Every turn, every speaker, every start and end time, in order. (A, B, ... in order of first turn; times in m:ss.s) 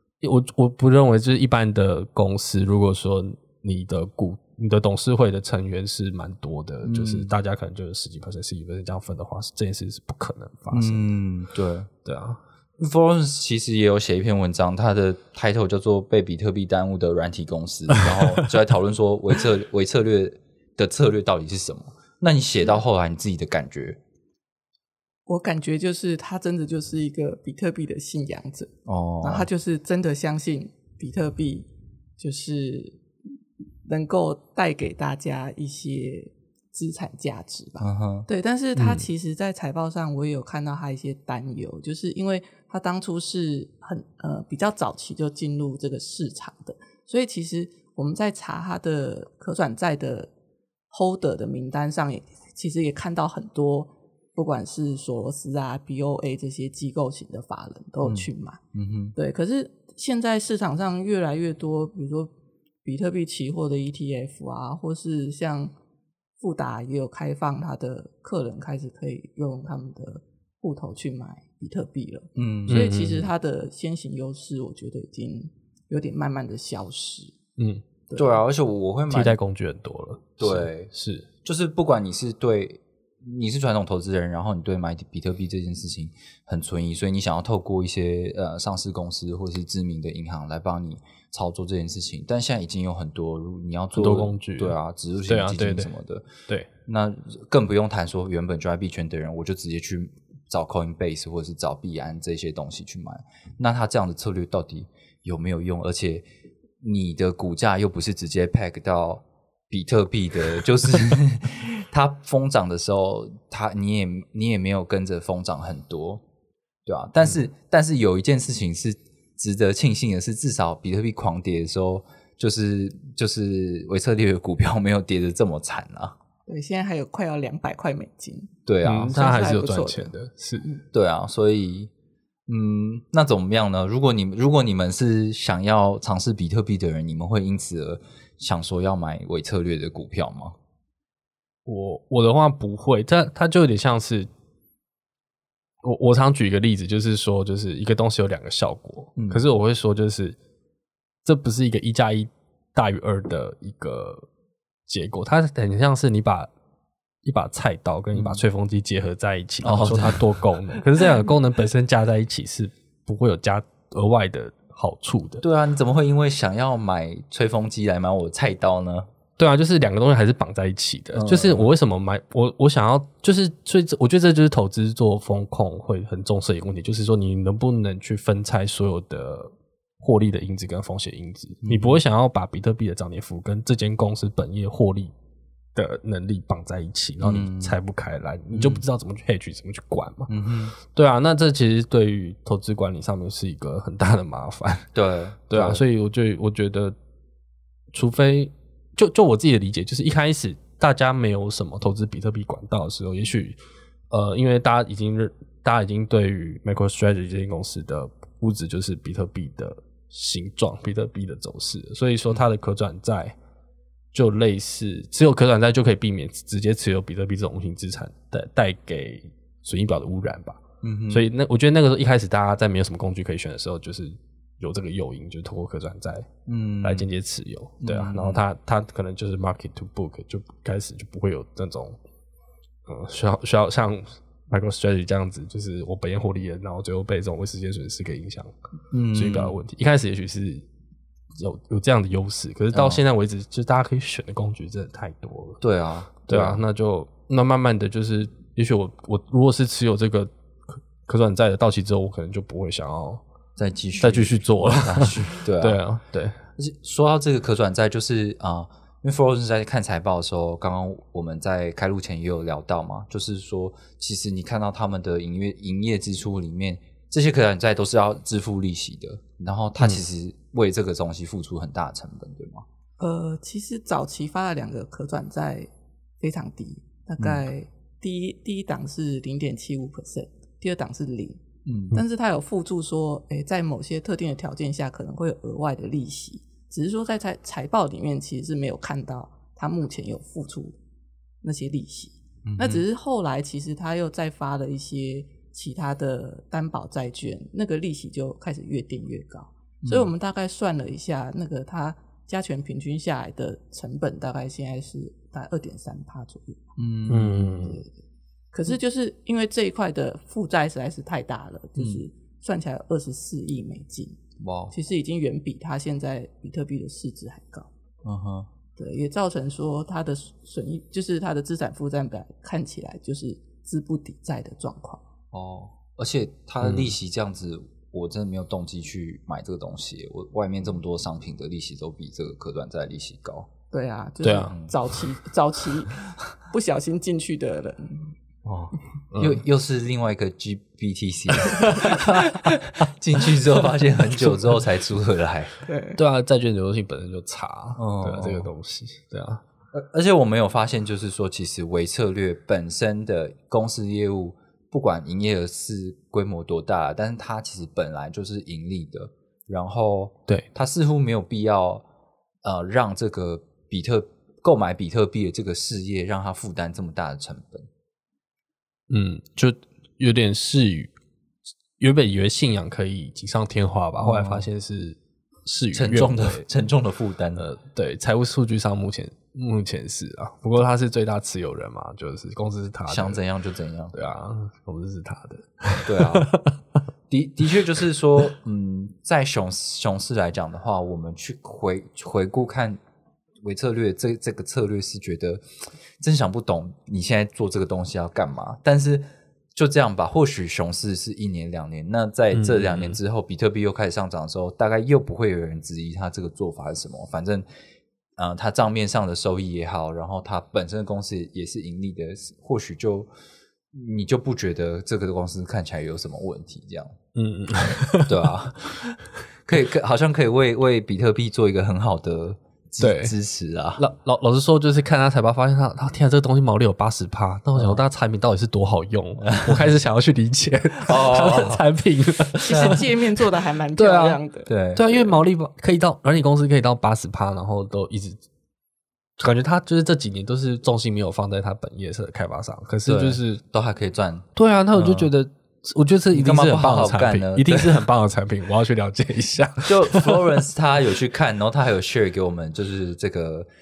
0:00.2-0:11.0 A
0:06.8-0:07.3 B
0:10.7-0:11.9 B
0:12.0-0:12.4 A
0:12.8-0:24.0 B
0:25.3-0:31.7 C
0:28.9-0:29.5 B
0:32.2-0:33.0 C
0:33.9-0:50.3 C
0:37.8-0:38.3 B
0:38.8-0:39.1 A
0:50.9-0:58.6 C
0:58.0-0:59.2 B
0:59.2-1:02.3 C
1:02.8-1:05.7 C
1:06.4-1:17.4 C
1:12.4-1:12.8 B
1:12.7-1:13.3 A
1:17.6-1:17.8 A
1:18.1-1:18.4 C
1:18.2-1:19.4 B
1:19.1-1:21.3 A
1:20.4-1:20.9 B
1:21.4-1:36.2 B
1:34.0-1:34.8 A
1:35.3-1:35.9 A
1:36.9-1:46.2 B
1:46.8-1:56.2 B
1:56.9-2:06.2 B
2:06.5-2:08.5 C
2:08.7-2:09.4 B
2:08.8-2:10.7 A
2:09.1-2:10.1 C
2:10.9-2:11.9 B
2:12.5-2:20.6 B
2:21.7-2:24.3 A
2:25.8-2:30.4 A
2:29.2-2:29.4 B
2:31.2-2:34.2 A
2:34.9-2:36.5 A
2:37.2-2:45.4 A
2:38.1-2:38.4 B
2:39.6-2:40.8 B
2:45.4-2:49.1 B
2:49.4-3:05.1 A
2:51.1-2:51.7 B
3:01.6-3:02.0 B
3:05.8-3:10.3 A
3:07.2-3:07.8 B
3:08.5-3:08.8 B
3:10.3-3:10.8 B
3:10.9-3:14.9 A
3:14.9-3:15.8 B
3:15.5-3:17.0 A
3:17.9-3:23.6 A
3:24.1-3:33.4 A
3:34.1-3:46.3 A
3:40.8-3:41.3 B
3:46.5-3:47.1 B
3:46.8-3:52.0 A
3:47.8-3:48.4 B
3:52.9-3:58.5 A
3:58.9-3:59.6 B
3:59.1-4:00.6 A
4:01.4-4:05.6 A
4:02.7-4:03.0 B
4:05.6-4:06.6 B
4:06.3-4:10.3 A
4:11.1-4:13.2 A
4:13.6-4:15.8 B
4:14.0-4:16.4 A
4:16.6-4:32.6 B
4:33.0-4:35.7 C
4:36.2-4:50.8 C
4:37.2-4:37.5 B
4:41.6-4:42.0 B
4:51.4-5:06.6 C
4:52.5-4:52.8 B
4:59.8-5:00.1 B
5:06.8-5:07.8 B
5:07.1-5:07.8 A
5:08.5-5:14.2 C
5:11.8-5:12.0 B
5:14.4-5:14.7 B
5:14.7-5:17.7 C
5:18.0-5:18.5 B
5:18.8-5:25.0 C
5:25.3-5:33.5 B
5:26.6-5:26.9 A
5:33.7-5:38.1 C
5:34.2-5:34.5 A
5:34.5-5:34.7 B
5:38.4-5:45.5 B
5:39.1-5:39.4 A
5:41.4-5:42.5 A
5:45.6-5:46.0 C
5:46.0-5:49.4 A
5:47.8-5:48.5 B
5:49.7-6:01.8 B
6:02.4-6:07.7 B
6:08.9-6:10.9 A
6:11.8-6:16.4 A
6:14.0-6:14.5 B
6:15.7-6:17.5 B
6:17.4-6:23.2 A
6:22.9-6:23.9 B
6:23.9-6:26.6 A
6:25.8-6:26.3 B
6:27.1-6:32.8 B
6:33.4-6:35.4 B
6:36.0-6:47.5 B
6:42.3-6:43.0 A
6:48.2-6:53.1 B
6:53.7-6:57.0 B
6:57.1-6:58.3 A
6:57.7-7:03.8 B
7:02.8-7:03.1 A
7:03.8-7:12.9 A
7:07.6-7:07.8 B
7:09.2-7:09.7 B
7:10.8-7:11.6 B
7:12.5-7:14.5 C
7:12.5-7:12.8 B
7:13.8-7:14.2 A
7:14.5-7:15.1 B
7:14.7-7:18.2 A
7:19.2-7:23.4 A
7:22.9-7:25.1 B
7:24.4-7:30.4 A
7:26.1-7:27.8 B
7:29.6-7:33.5 B